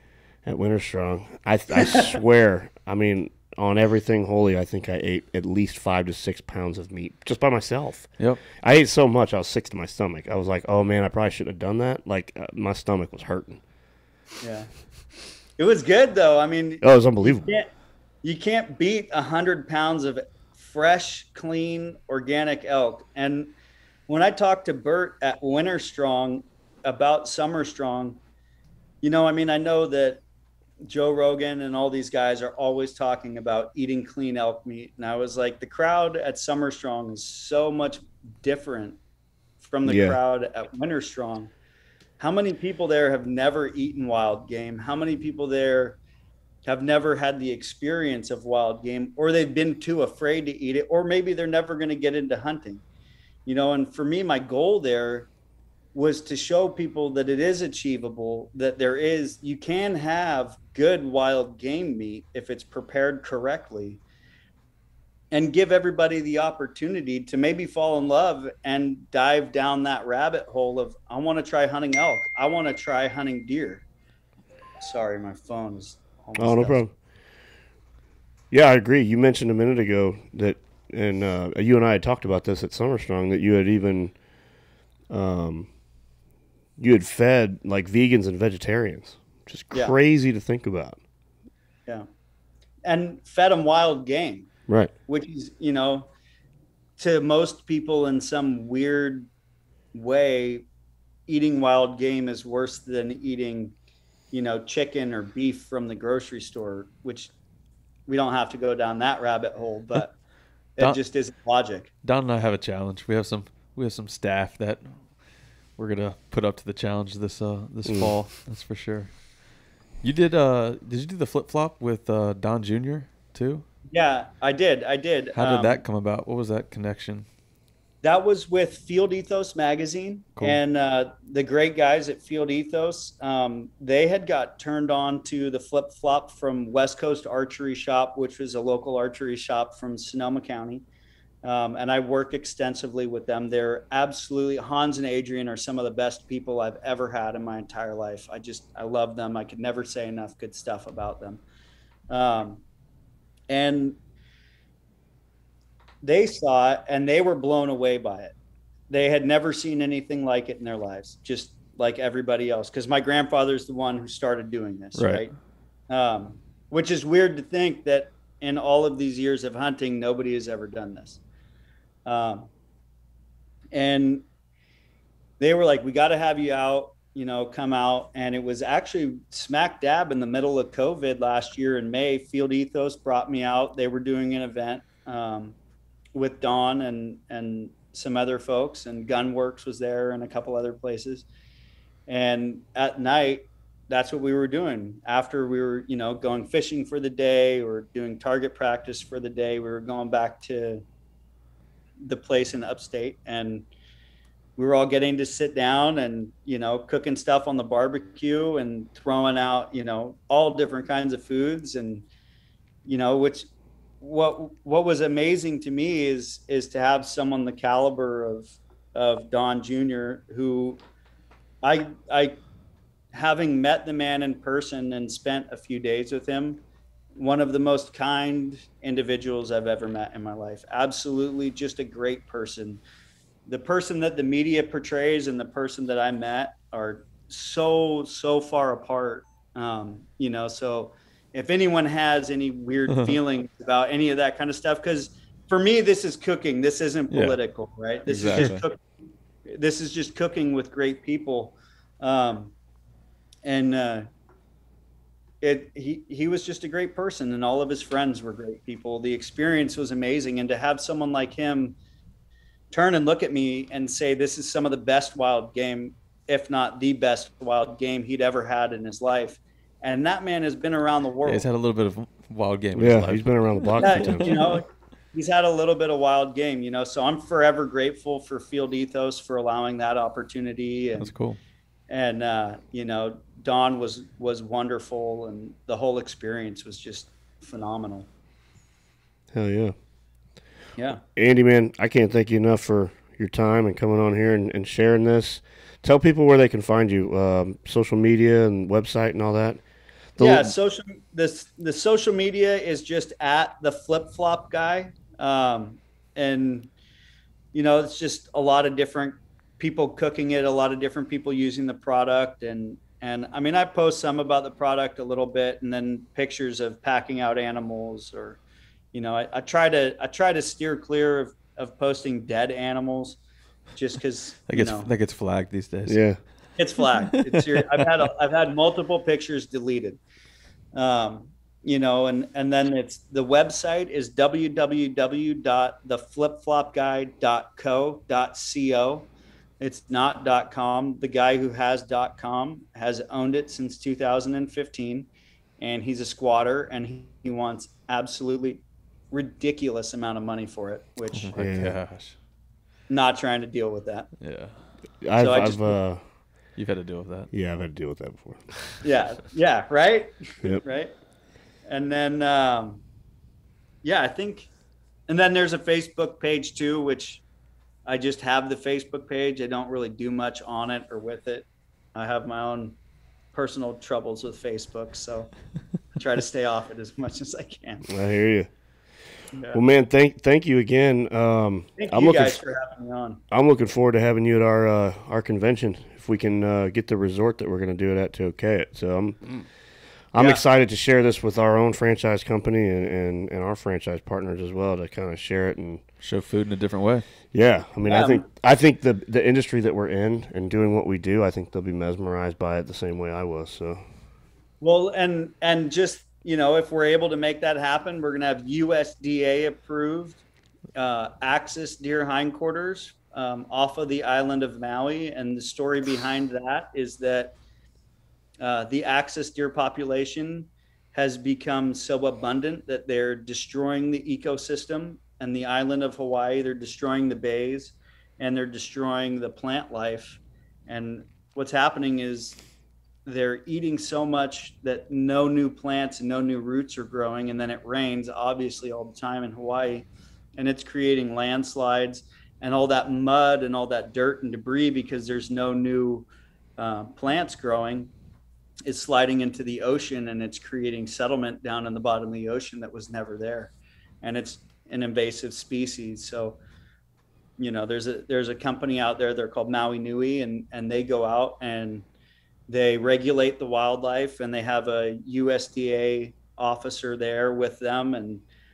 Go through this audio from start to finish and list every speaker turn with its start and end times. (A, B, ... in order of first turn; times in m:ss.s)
0:00.4-0:13.6 A
0:14.4-0:14.7 B
0:15.6-0:17.7 B
0:16.8-0:17.5 A
0:18.2-0:23.5 B
0:24.1-0:28.2 B
0:29.0-0:30.2 B
0:30.8-0:39.0 B
0:39.6-0:41.5 B
0:39.8-0:40.2 A
0:42.2-0:46.0 B
0:46.6-0:52.8 B
0:53.4-0:55.3 B
0:55.9-1:04.0 B
1:05.3-1:13.8 B
1:14.8-1:16.8 B
1:16.4-1:16.9 A
1:18.5-1:24.1 A
1:25.1-1:25.7 A
1:26.8-1:31.0 A
1:32.8-1:34.5 B
1:35.1-1:36.1 B
1:37.0-1:39.3 B
1:39.9-1:40.6 B
1:41.3-1:43.7 B
1:44.3-1:47.3 B
1:48.1-1:50.2 B
1:50.8-1:51.9 B
1:52.0-1:55.0 C
1:55.8-1:59.2 C
1:57.8-1:58.1 A
2:00.0-2:03.6 C
2:03.9-2:05.8 B
2:05.3-2:07.3 C
2:08.0-2:20.8 B
2:21.4-2:31.4 B
2:32.1-2:32.6 B
2:33.5-2:34.0 B
2:36.0-2:38.3 B
2:38.9-2:45.3 B
2:45.0-2:45.2 C
2:45.9-2:51.2 B
2:52.0-2:52.5 B
2:53.7-2:54.2 B
2:55.4-3:05.6 B
3:06.1-3:11.2 B
3:12.1-3:20.8 B
3:22.0-3:23.7 B
3:24.6-3:32.0 B
3:32.8-3:33.5 B
3:34.0-3:40.8 B
3:41.6-3:42.4 B
3:43.1-3:46.6 B
3:47.1-3:52.8 B
3:53.5-4:08.8 B
4:07.1-4:07.4 C
4:08.1-4:08.6 C
4:09.5-4:12.5 B
4:13.4-4:14.1 B
4:15.4-4:21.8 B
4:22.7-4:31.4 B
4:31.2-4:34.5 C
4:32.7-4:34.4 A
4:33.8-4:41.1 B
4:41.0-4:41.4 C
4:41.9-4:48.1 B
4:49.3-4:49.7 A
4:51.2-4:59.6 A
5:00.2-5:00.5 A
5:00.2-5:06.7 B
5:07.5-5:18.4 B
5:18.9-5:23.2 B
5:23.7-5:24.9 B
5:24.5-5:26.2 C
5:25.9-5:26.2 A
5:26.6-5:30.0 B
5:30.7-5:45.1 B
5:45.6-5:51.3 B
5:51.1-5:52.2 C
5:51.4-5:51.8 A
5:52.9-5:54.1 B
5:54.2-5:54.6 C
5:55.0-5:56.0 A
5:55.2-5:55.8 B
5:56.6-5:57.3 C
5:57.3-5:58.4 A
5:58.8-6:00.9 B
6:01.6-6:02.8 B
6:03.8-6:04.5 B
6:05.1-6:07.2 B
6:07.8-6:12.8 B
6:13.3-6:15.3 B
6:15.9-6:17.9 B
6:17.9-6:18.5 A
6:19.3-6:19.6 B
6:19.5-6:22.4 A
6:21.8-6:23.2 B
6:23.3-6:29.4 A
6:30.1-6:35.8 A
6:30.2-6:30.4 B
6:36.0-6:37.0 C
6:37.3-6:43.8 A
6:37.8-6:38.2 B
6:44.6-6:50.2 B
6:50.7-6:57.4 B
6:58.4-7:12.4 B
7:13.0-7:26.1 B
7:26.6-7:27.9 B
7:28.6-7:36.4 B
7:37.4-7:41.8 B
7:42.5-7:48.2 B